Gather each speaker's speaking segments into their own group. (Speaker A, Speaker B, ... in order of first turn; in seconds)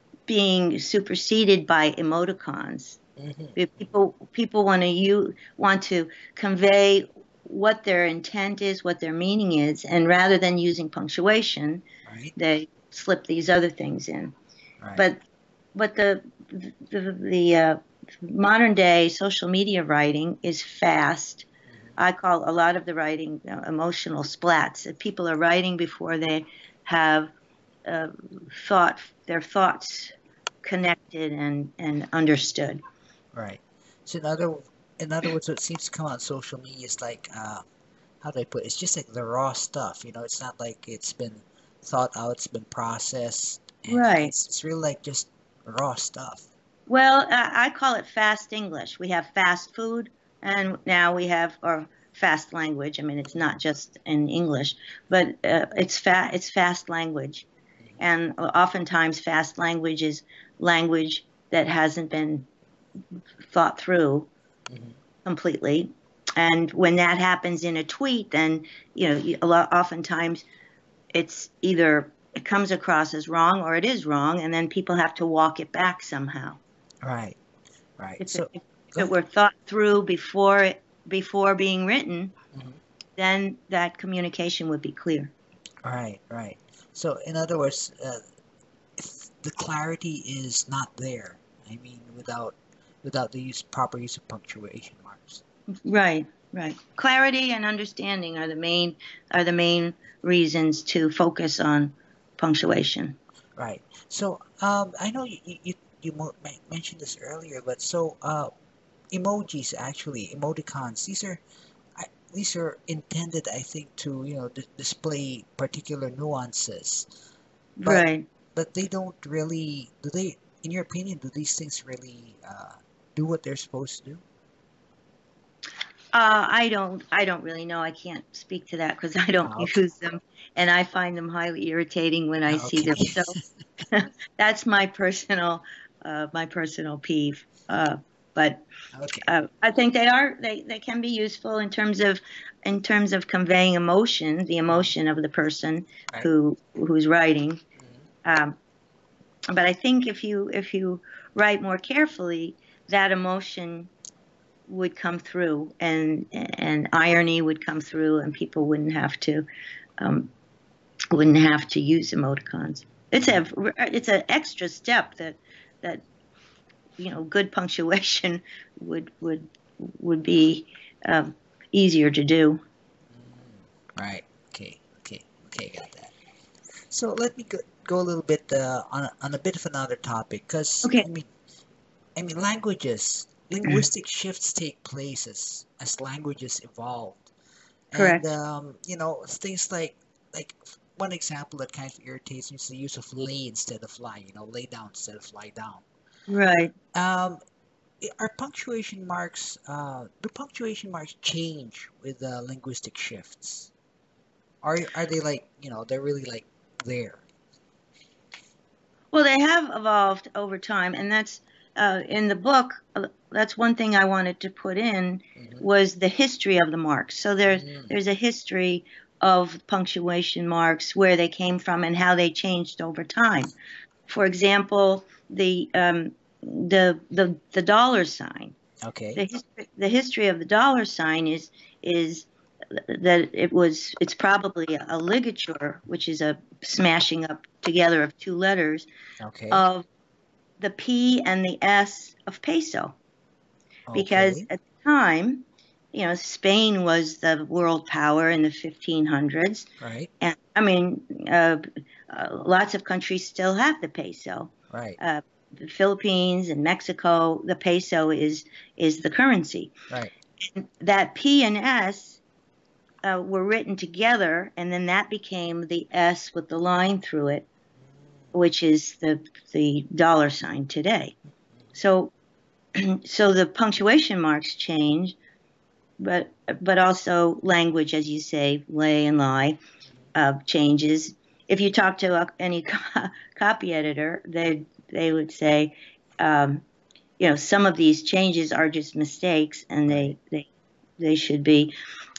Speaker A: 0.3-3.0, 3.6-11.8, 12.4-14.3, 15.0-15.2, 15.8-21.5, 22.0-27.3, 27.9-32.8, 43.9-44.3, 46.9-57.5, 58.0-62.5, 63.5-64.3, 65.2-70.5, 71.1-76.6, 78.2-82.3, 83.2-85.3, 95.9-103.2, 117.8-118.3, 126.1-133.3, 133.9-138.6, 139.2-147.6, 148.2-148.6, 149.5-153.9, 154.7-159.5, 160.0-160.3, 161.1-166.0, 167.0-172.6, 187.9-188.3, 196.3-196.7, 209.1-223.5, 224.1-228.6, 229.2-238.9, 239.5-239.9, 240.6-243.0, 243.9-249.7, 250.2-259.7, 260.4-262.2, 263.0-267.5, 268.3-271.1, 271.8-272.1, 272.8-275.2, 276.0-279.6, 280.1-286.6, 287.2-290.5, 291.0-291.7
Speaker B: 3.2-3.6, 12.1-12.3, 33.3-37.6, 38.2-46.5, 64.7-65.0, 77.0-77.4, 78.0-79.1, 82.5-82.8, 85.8-88.2, 89.0-95.4, 103.6-108.5, 109.1-111.4, 112.0-117.1, 117.8-124.2, 129.4-129.8, 132.5-133.4, 138.9-139.3, 173.2-176.1, 176.9-181.3, 182.2-187.3, 187.9-195.8, 196.9-197.4, 198.0-203.7, 204.6-207.2, 215.4-215.6, 217.5-217.9, 228.8-229.2, 239.2-239.6, 243.9-244.5, 249.8-250.1, 254.7-255.0, 289.9-290.1